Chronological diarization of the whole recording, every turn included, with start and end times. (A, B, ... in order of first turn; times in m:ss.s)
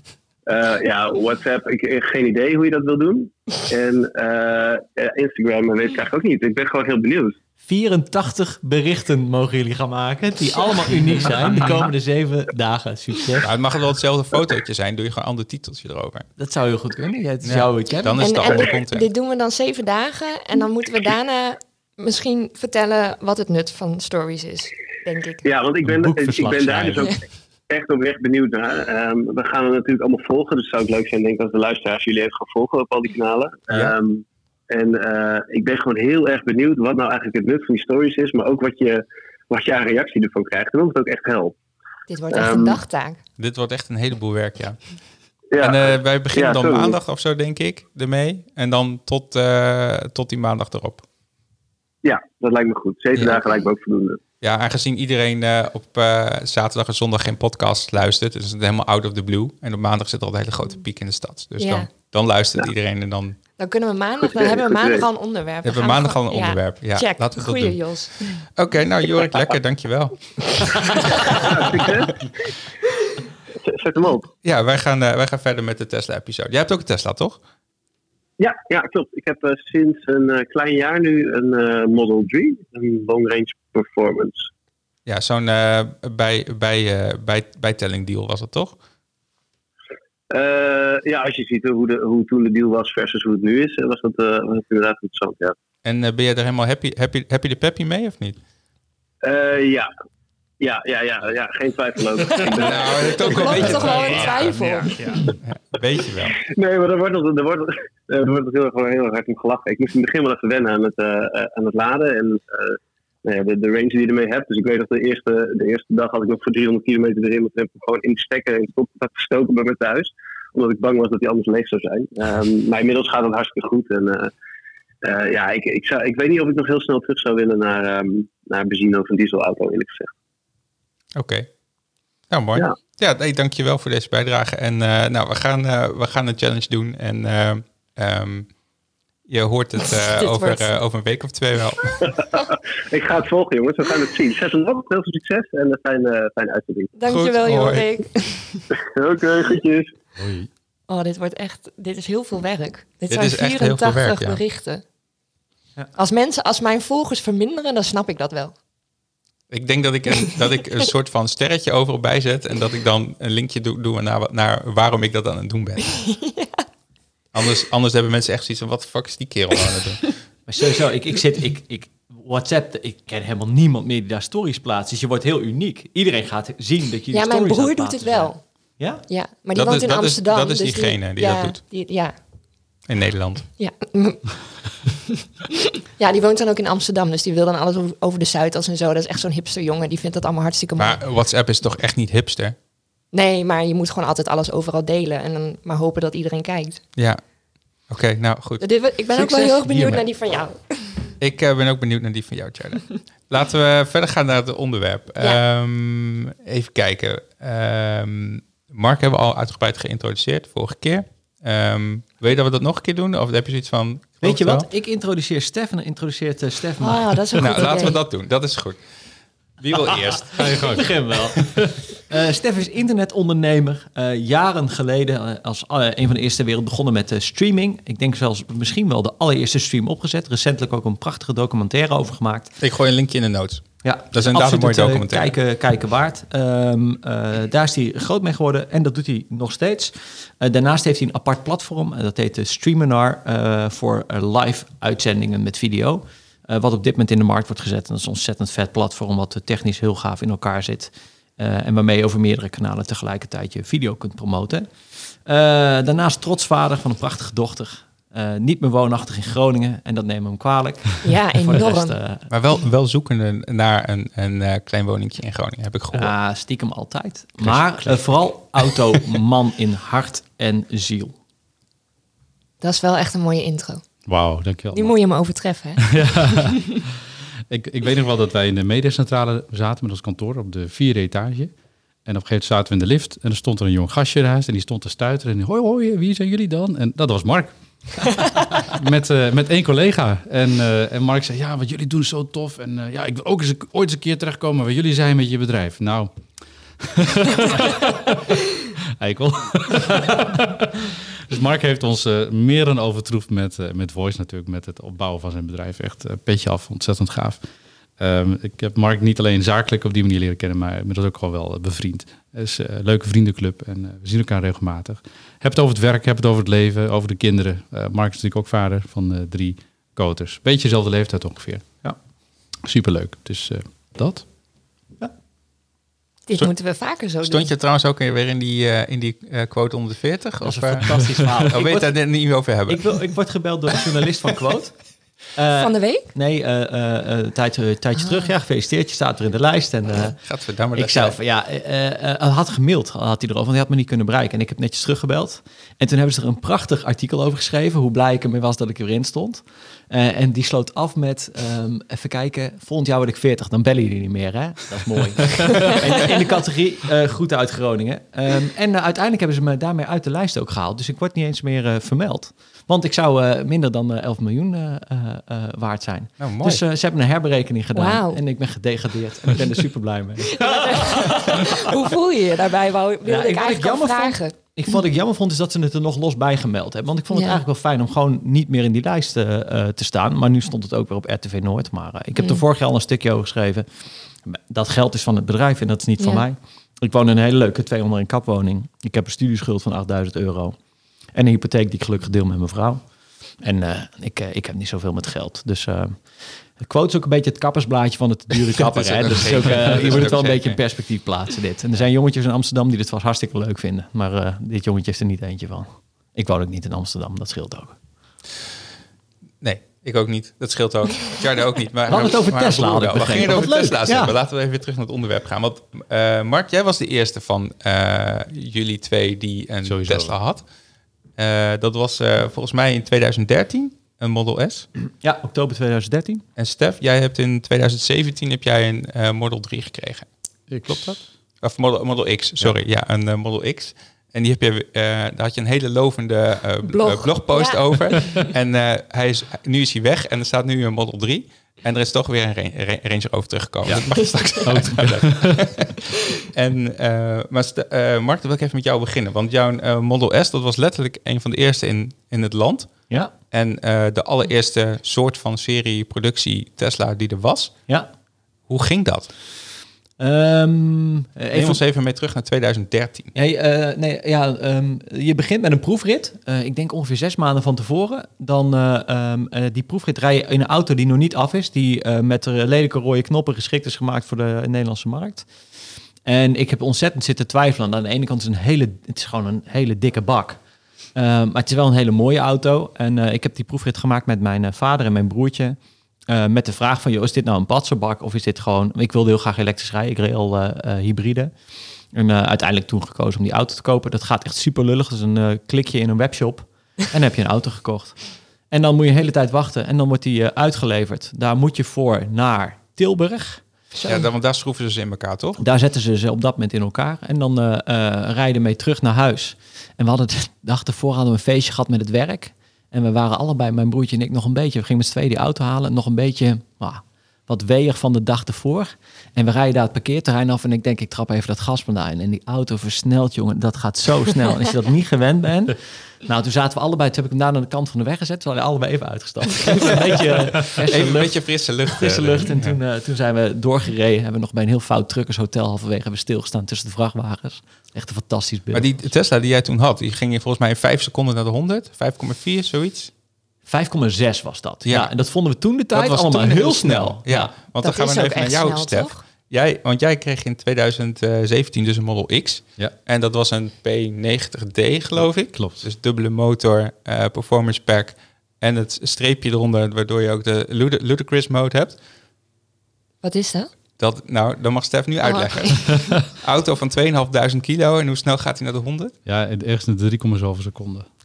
0:00.5-0:07.3 A
0:07.6-0:13.5 B
0:13.4-0:16.3 C
0:16.4-0:18.7 B
0:17.4-0:19.1 C
0:18.2-0:25.5 D
0:25.4-0:41.6 A
0:25.8-0:27.1 B
0:42.1-0:43.2 D
0:42.3-0:42.8 A
0:43.4-0:44.9 C
0:45.5-0:47.0 A
0:45.6-0:51.0 C
0:52.0-0:54.2 A
0:53.1-0:53.4 C
0:54.4-1:03.4 C
1:01.6-1:01.9 D
1:03.6-1:08.2 D
1:04.2-1:05.0 A
1:05.6-1:11.6 C
1:10.9-1:12.3 A
1:13.6-1:14.3 A
1:14.4-1:17.4 C
1:18.4-1:24.5 A
1:25.0-1:28.8 C
1:30.3-1:35.5 A
1:35.8-1:38.4 C
1:39.2-1:39.9 A
1:40.6-1:44.3 A
1:42.4-1:46.4 C
1:43.2-1:44.9 D
1:46.3-2:04.3 A
2:05.0-2:10.1 A
2:11.2-2:11.5 C
2:12.3-2:18.5 C
2:19.3-2:22.0 C
2:20.0-2:20.7 D
2:22.0-2:26.9 A
2:27.0-2:28.6 D
2:27.1-2:27.9 C
2:28.9-2:29.9 A
2:30.2-2:30.5 E
2:30.9-2:34.8 D
2:33.1-2:34.4 C
2:36.0-2:38.5 D
2:39.5-2:46.0 C
2:46.0-2:46.6 D
2:47.3-2:50.2 C
2:50.5-2:59.0 B
2:57.1-3:02.2 D
2:59.5-3:01.6 C
3:02.9-3:03.5 C
3:03.6-3:04.6 D
3:06.0-3:11.0 D
3:10.8-3:12.5 C
3:13.1-3:16.8 D
3:17.9-3:18.6 C
3:18.6-3:21.1 D
3:19.1-3:20.0 B
3:21.2-3:34.7 C
3:34.2-3:37.8 B
3:36.8-3:38.0 D
3:37.4-3:38.8 C
3:39.6-3:40.7 C
3:40.1-3:41.5 B
3:40.3-3:41.7 E
3:42.1-3:52.5 B
3:52.6-3:55.3 C
3:53.8-4:22.3 B
4:21.0-4:22.0 D
4:22.3-4:26.1 C
4:25.9-4:31.1 B
4:27.4-4:28.1 E
4:32.6-4:33.8 D
4:34.0-4:35.0 E
4:34.7-4:35.9 D
4:35.8-4:36.9 E
4:37.5-4:41.5 E
4:42.0-4:56.1 E
4:56.8-4:58.4 E
4:59.0-5:07.4 E
5:08.0-5:21.6 E
5:22.6-5:24.2 E
5:26.3-5:27.5 D
5:27.2-5:33.0 C
5:30.4-5:32.1 B
5:32.7-5:40.2 B
5:35.5-5:36.1 D
5:38.0-5:38.3 D
5:40.2-5:41.2 C
5:40.8-6:11.6 B
6:06.2-6:06.6 C
6:07.7-6:08.2 D
6:10.3-6:14.3 D
6:13.0-6:30.6 B
6:17.1-6:17.4 D
6:22.2-6:22.4 D
6:26.0-6:26.3 D
6:31.1-6:47.8 B
6:38.6-6:40.6 C
6:49.4-7:00.4 C
6:51.9-6:54.1 B
6:59.6-7:00.1 E
7:01.2-7:04.7 C
7:05.0-7:06.2 B
7:06.4-7:10.1 C
7:10.5-7:11.1 E
7:10.7-7:37.5 C
7:16.6-7:18.3 D
7:24.0-7:24.4 D
7:24.4-7:25.5 E
7:38.5-7:39.1 C
7:40.0-7:41.6 B
7:41.3-7:43.1 C
7:43.1-7:55.3 B
7:56.0-8:00.4 B
8:00.9-8:05.6 B
8:06.1-8:11.4 B
8:11.9-8:23.4 B
8:23.7-8:24.1 D
8:23.8-8:25.4 C
8:25.4-8:58.9 B
8:50.6-8:52.6 C
8:58.5-9:02.9 C
9:03.4-9:07.3 B
9:04.6-9:04.9 C
9:05.7-9:21.8 C
9:07.6-9:09.0 D
9:15.0-9:15.6 E
9:23.0-9:23.5 D
9:23.8-9:28.9 C
9:25.0-9:26.0 D
9:29.0-9:30.9 E